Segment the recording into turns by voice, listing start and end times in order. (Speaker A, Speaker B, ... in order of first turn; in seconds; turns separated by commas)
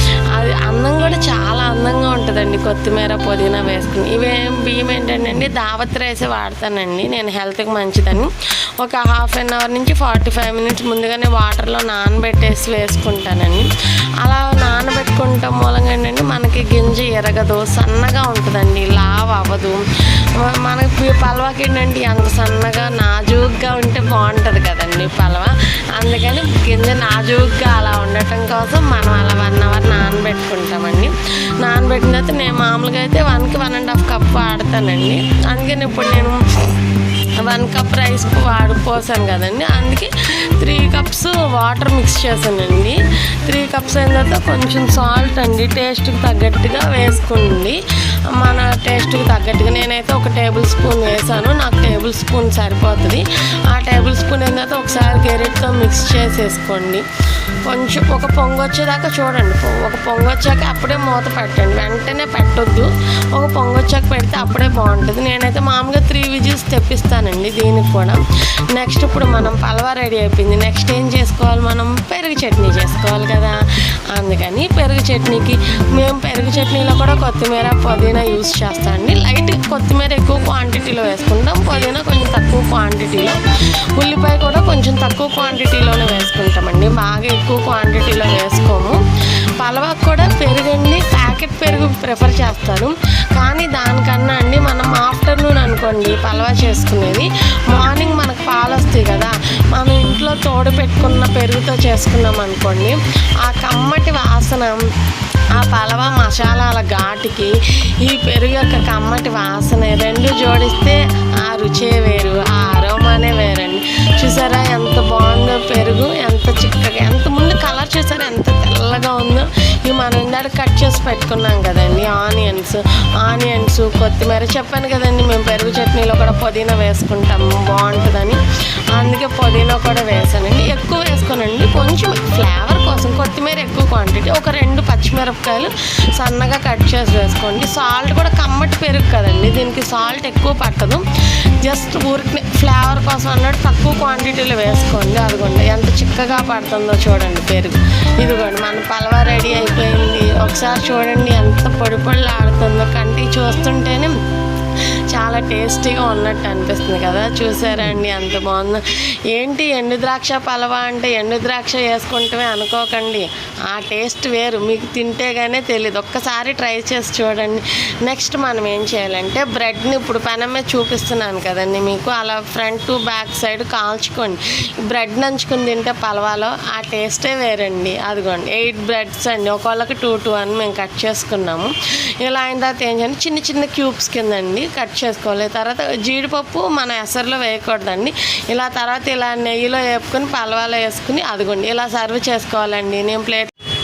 Speaker A: 0.3-13.7, Speaker A: 14.2-19.8, Speaker A: 20.4-36.4, Speaker A: 37.4-57.0, Speaker A: 57.6-73.6, Speaker A: 74.1-83.4, Speaker A: 84.0-89.0, Speaker A: 89.6-104.8, Speaker A: 105.6-128.4, Speaker A: 128.9-141.1, Speaker A: 141.6-154.1, Speaker A: 155.1-193.5